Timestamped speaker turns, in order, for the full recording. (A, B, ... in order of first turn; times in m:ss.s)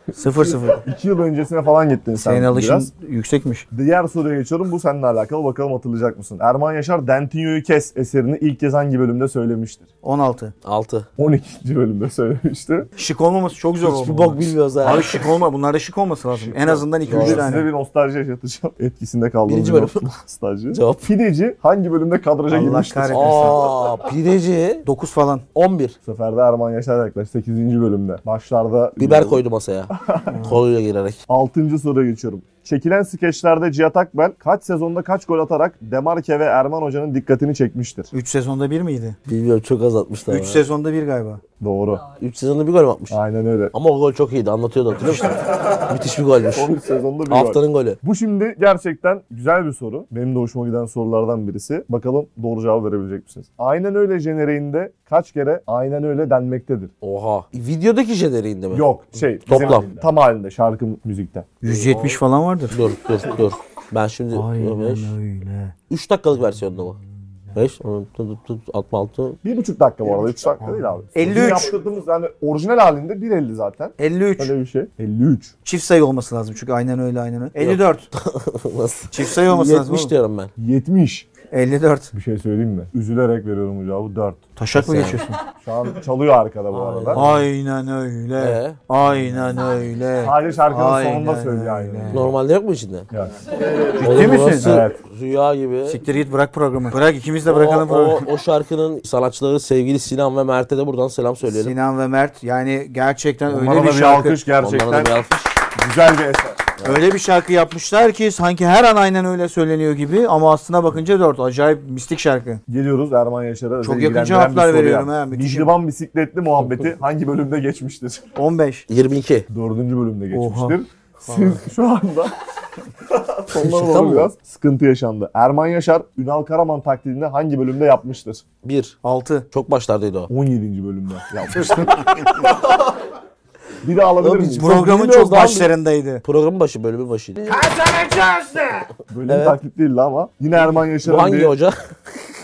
0:00.1-0:00.8 A
0:00.3-0:02.9 B
0:02.2-0:03.6 A
0:03.7-0:09.9 B
0:10.0-0:10.5 A
0:10.6-0:11.1 C
0:11.2-0:12.9 B
0:13.0-0:17.7 A
0:13.8-0:15.3 C
0:16.3-0:23.9 B
0:17.0-0:17.6 C
0:19.4-0:20.0 C
0:20.7-0:21.0 C
0:22.5-0:23.6 A
0:23.1-0:24.9 C
0:24.8-0:25.4 A
0:25.5-0:26.0 C
0:26.0-0:30.5 B
0:29.0-0:31.2 C
0:30.3-0:30.6 A
0:31.3-0:38.1 B
0:38.1-0:39.2 A
0:39.2-0:40.6 C
0:40.3-0:41.4 A
0:41.6-0:42.1 B
0:42.2-0:43.2 C
0:43.1-0:43.7 B
0:43.7-0:46.7 C
0:45.1-0:46.0 B
0:46.5-0:56.9 B
0:47.3-0:48.0 C
0:57.0-0:58.9 C
0:58.7-1:01.5 B
0:59.4-0:59.9 C
1:01.6-1:02.8 A
1:01.6-1:02.2 C
1:02.7-1:05.1 C
1:04.3-1:05.7 A
1:05.9-1:07.0 C
1:07.5-1:09.4 C
1:09.4-1:15.5 B
1:10.6-1:11.7 A
1:14.0-1:14.5 A
1:15.6-1:18.1 A
1:17.6-1:20.5 C
1:19.1-1:20.1 A
1:20.6-1:21.3 B
1:21.5-1:22.1 A
1:22.1-1:24.4 B
1:24.6-1:25.4 A
1:24.7-1:25.2 C
1:25.6-1:27.3 B
1:26.7-1:27.4 C
1:27.1-1:32.3 A
1:28.4-1:28.8 C
1:29.2-1:29.6 B
1:30.2-1:32.3 B
1:32.1-1:33.1 C
1:33.1-1:35.0 B
1:34.0-1:34.8 A
1:34.0-1:36.0 C
1:35.8-1:38.3 A
1:37.4-1:41.7 C
1:41.4-1:44.4 A
1:43.5-1:45.1 B
1:44.6-1:45.6 C
1:45.7-1:46.7 B
1:46.8-1:52.6 A
1:52.7-1:58.3 B
1:53.8-1:55.7 A
1:58.4-1:58.8 A
1:58.9-1:59.5 C
1:59.5-2:02.3 B
2:00.3-2:01.6 A
2:03.0-2:08.4 B
2:03.5-2:04.3 C
2:08.6-2:09.0 C
2:09.0-2:09.5 A
2:09.5-2:10.3 C
2:10.3-2:13.1 B
2:11.5-2:12.4 A
2:13.8-2:15.3 B
2:14.2-2:17.7 C
2:14.6-2:16.2 A
2:17.5-2:18.9 A
2:19.1-2:21.5 B
2:19.3-2:19.6 C
2:20.5-2:22.2 C